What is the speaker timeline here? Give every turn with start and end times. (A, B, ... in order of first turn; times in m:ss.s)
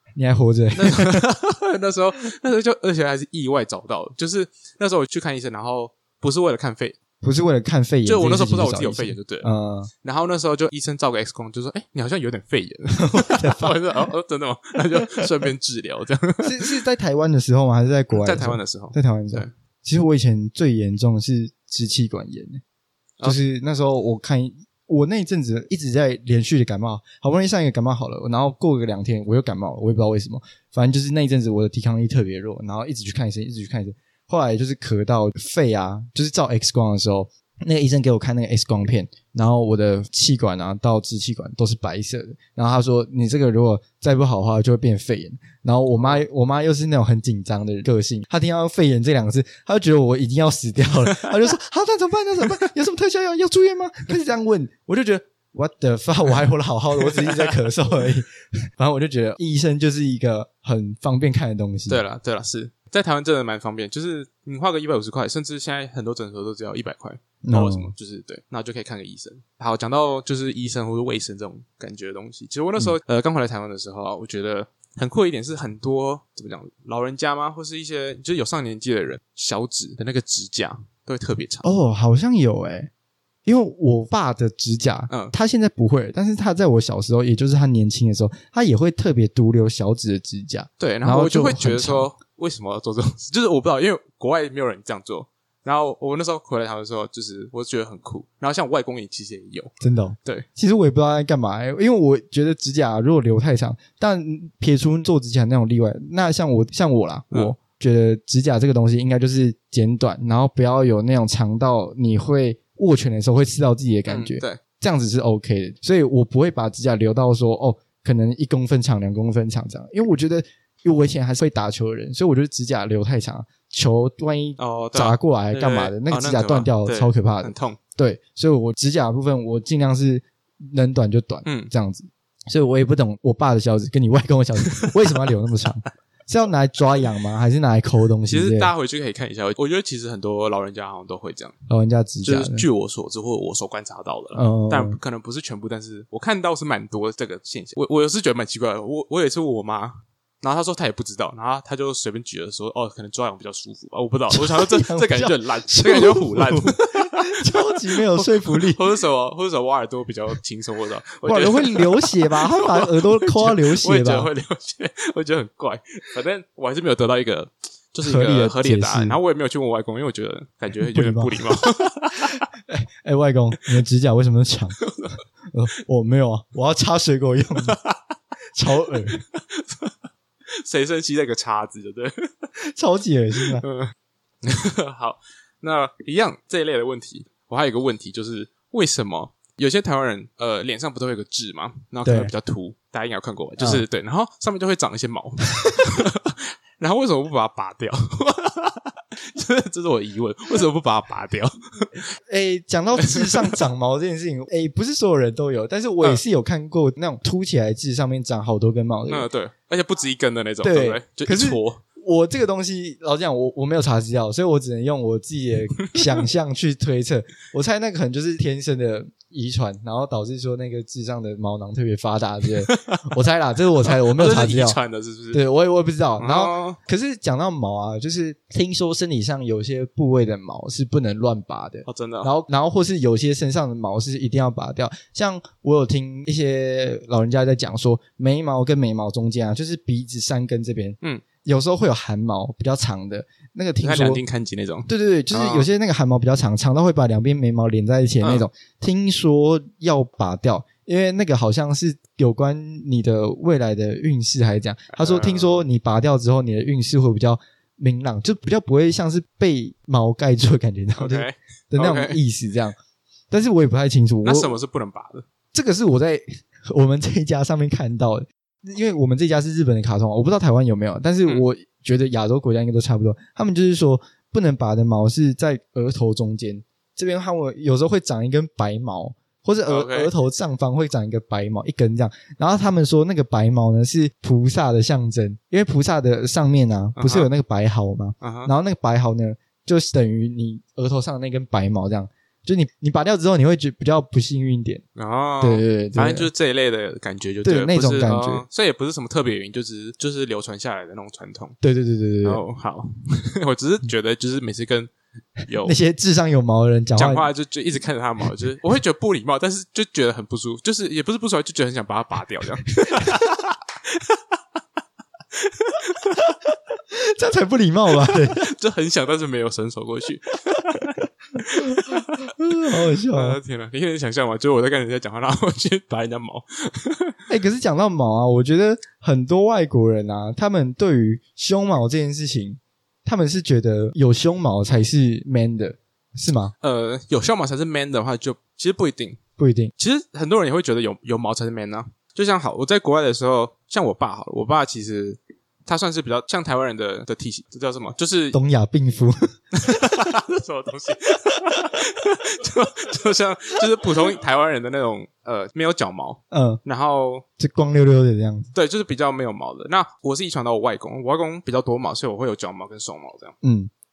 0:00.2-0:01.2 A
0:00.8-0:07.0 B
0:07.2-0:09.9 A
0:08.0-0:09.5 B
0:10.0-0:16.8 B
0:12.9-0:13.8 A
0:16.4-0:22.6 A
0:18.1-0:19.5 B
0:23.2-1:02.0 A
0:46.0-0:46.2 B
0:57.0-0:57.5 B
1:01.9-1:21.7 B
1:07.4-1:07.9 A
1:21.6-1:22.9 A
1:23.4-1:32.1 A
1:30.8-1:39.7 B
1:39.8-2:18.7 A
1:54.1-1:54.6 B
2:04.6-2:07.8 B
2:11.4-2:11.7 B
2:18.3-2:21.5 B
2:21.7-2:22.6 A
2:22.2-2:52.4 B
2:24.3-2:25.0 A
2:34.3-2:38.8 A
2:41.2-2:44.3 A
2:48.0-2:49.2 A
2:50.8-2:51.5 A
2:52.7-2:54.8 A
2:54.8-2:55.1 B
2:55.5-2:57.8 A
2:57.6-2:58.0 B
2:58.6-2:59.2 A
2:59.1-2:59.9 B
3:00.6-3:02.3 B
3:02.7-3:03.6 A
3:03.4-3:22.0 B
3:12.0-3:12.3 A
3:22.3-3:29.3 A
3:23.0-3:23.6 B
3:29.1-3:31.8 B
3:30.6-3:44.8 A
3:42.7-3:43.0 B
3:43.9-3:45.4 B
3:45.3-4:04.2 A
3:46.2-3:46.8 B
3:51.8-3:52.3 B
4:03.8-4:05.7 B
4:04.9-4:22.8 A
4:08.2-4:08.4 B
4:14.9-4:15.6 B
4:21.0-4:22.2 B
4:23.3-4:24.5 A
4:24.2-4:25.3 B
4:25.5-4:54.8 A
4:39.7-4:40.1 B
4:47.0-4:47.3 B
4:48.2-4:48.5 B
4:55.0-5:01.6 B
4:55.4-4:56.3 A
4:57.4-4:58.4 A
5:01.6-5:02.4 A
5:02.2-5:04.9 B
5:05.5-5:05.7 B
5:05.6-5:07.3 A
5:07.0-5:14.2 B
5:15.3-5:16.2 B
5:16.9-5:18.5 A
5:18.1-5:27.2 B
5:21.6-5:23.4 A
5:27.3-5:36.5 A
5:36.6-5:39.2 B
5:39.4-5:39.7 A
5:39.8-5:48.4 B
5:48.3-5:49.3 A
5:49.5-5:57.2 B
5:56.3-5:56.6 A
5:57.4-5:58.5 A
5:58.5-6:03.3 B
6:03.4-6:03.7 A